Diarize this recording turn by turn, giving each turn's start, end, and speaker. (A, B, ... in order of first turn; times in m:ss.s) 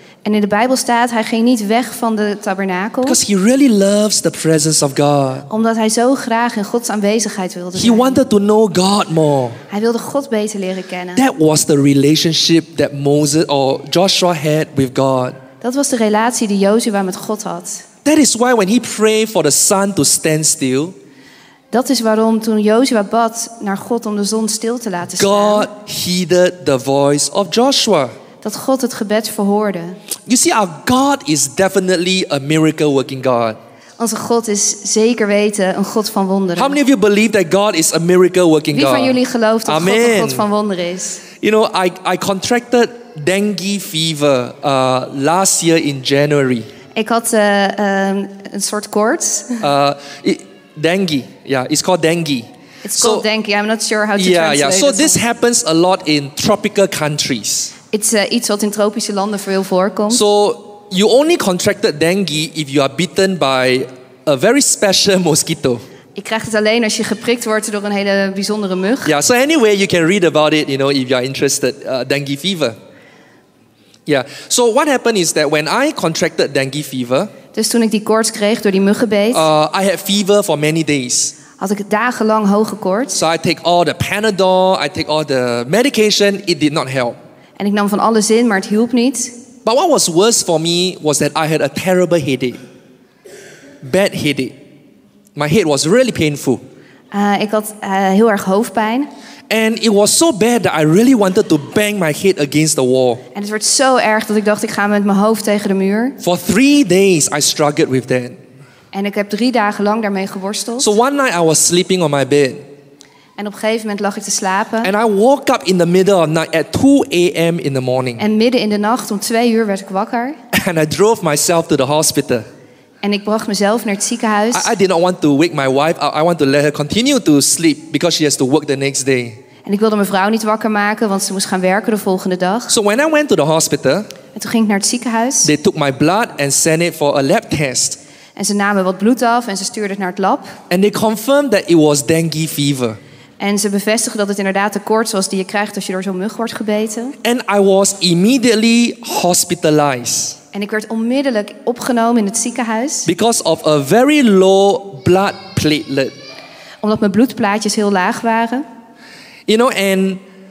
0:00.2-0:03.2 A
0:03.0-0:05.5 B
0:05.5-0:08.2 A
0:07.8-0:09.6 B
0:09.7-0:11.2 A
0:11.2-0:15.4 B
0:15.6-0:17.9 A
0:18.0-0:21.0 B
0:21.7-0:25.7 A
0:25.2-0:28.2 B
0:28.4-0:30.0 A
0:30.3-0:33.6 B
0:34.0-0:36.8 A
0:36.6-0:40.4 B
0:38.7-0:41.2 A
0:41.4-0:46.7 B
0:47.0-0:49.6 A
0:49.6-0:53.3 B
0:52.8-0:55.2 A
0:54.2-0:57.7 B
0:57.9-1:00.2 A
1:00.1-1:05.8 B
1:06.2-1:09.1 A
1:09.0-1:12.8 B
1:14.1-1:17.3 B
1:17.5-1:19.5 A
1:19.3-1:21.4 B
1:21.6-1:23.2 A
1:23.1-1:27.2 B
1:27.6-1:29.4 A
1:29.6-1:32.6 B
1:33.8-1:34.6 B
1:35.4-1:36.6 B
1:37.1-1:39.1 A
1:39.5-1:43.2 B
1:43.3-1:46.2 A
1:46.2-1:48.4 B
1:48.9-1:50.9 A
1:50.8-1:52.6 B
1:53.4-1:54.9 A
1:54.8-1:58.2 B
1:58.2-2:00.4 A
2:00.5-2:02.5 B
2:03.0-2:04.7 A
2:04.5-2:09.4 B
2:09.6-2:12.7 A
2:12.7-2:14.1 B
2:14.3-2:15.5 A
2:15.4-2:18.0 B
2:18.4-2:20.6 A
2:20.7-2:23.0 B
2:23.4-2:27.2 A
2:27.2-2:30.4 B
2:30.5-2:33.1 A
2:33.1-2:36.1 B
2:36.8-2:38.6 A
2:39.5-2:40.2 B